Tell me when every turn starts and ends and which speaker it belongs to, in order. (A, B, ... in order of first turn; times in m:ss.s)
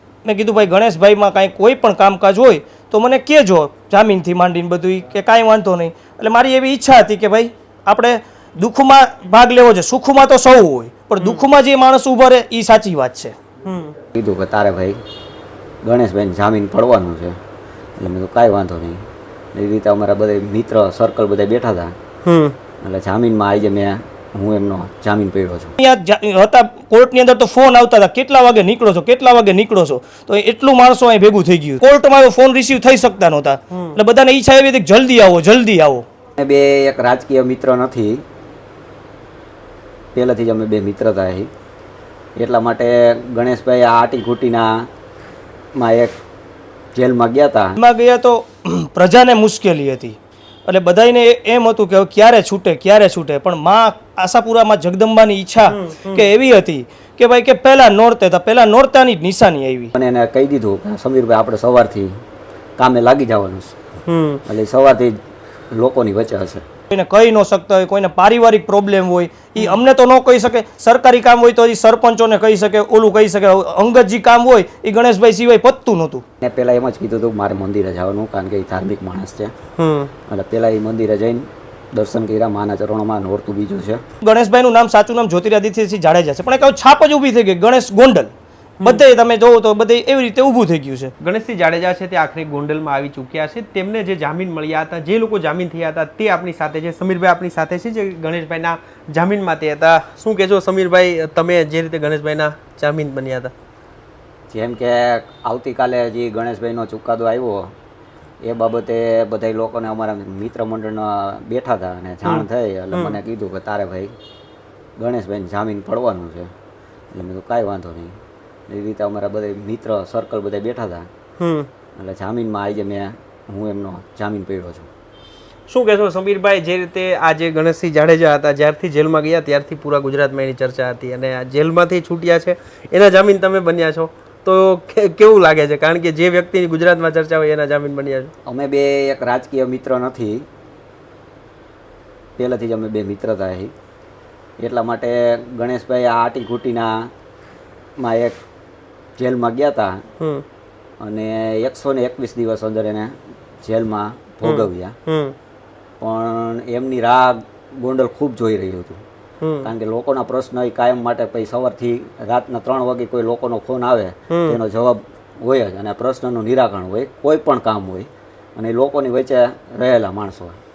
0:00.2-0:13.4 A
0:11.2-0:11.5 B
0:13.6-0:14.0 B
0:14.1-0:15.0 C
0:15.8-0:17.4 C
0:18.0-0:21.9 C
0:22.2-0:22.6 B
0:22.8-0:25.8 C
0:25.8-0:36.0 A
0:33.7-0:34.0 B
0:36.4-0:38.2 C
0:40.1-0:41.5 C
0:42.4-0:44.9 C
0:45.8-0:46.1 C
0:46.9-0:47.8 C
0:47.8-0:59.9 A
0:55.7-0:56.3 B
0:59.9-1:02.1 C
1:02.8-1:03.7 C
1:04.1-1:04.4 B
1:04.4-1:05.2 C
1:05.7-1:06.6 C
1:06.9-1:16.2 A
1:16.4-1:19.5 C
1:19.8-1:20.1 B
1:20.3-1:24.0 C
1:24.2-1:28.3 A
1:28.8-1:31.1 A
1:31.2-1:43.5 B
1:44.5-1:47.7 C
1:48.4-1:54.1 C
1:52.2-1:53.2 B
1:55.0-1:56.5 C
1:57.1-2:01.1 C
2:01.4-2:01.7 B
2:02.0-2:04.9 C
2:05.7-2:18.3 B
2:18.4-2:20.4 C
2:22.4-2:23.7 C
2:24.6-2:27.1 C
2:28.0-2:28.4 C
2:29.2-2:30.0 C
2:30.2-2:30.4 B
2:31.0-2:33.1 C
2:33.6-2:35.0 C
2:34.4-2:35.3 B
2:36.0-2:39.0 C
2:39.4-2:39.7 B
2:39.6-2:50.6 C
2:44.3-2:44.6 B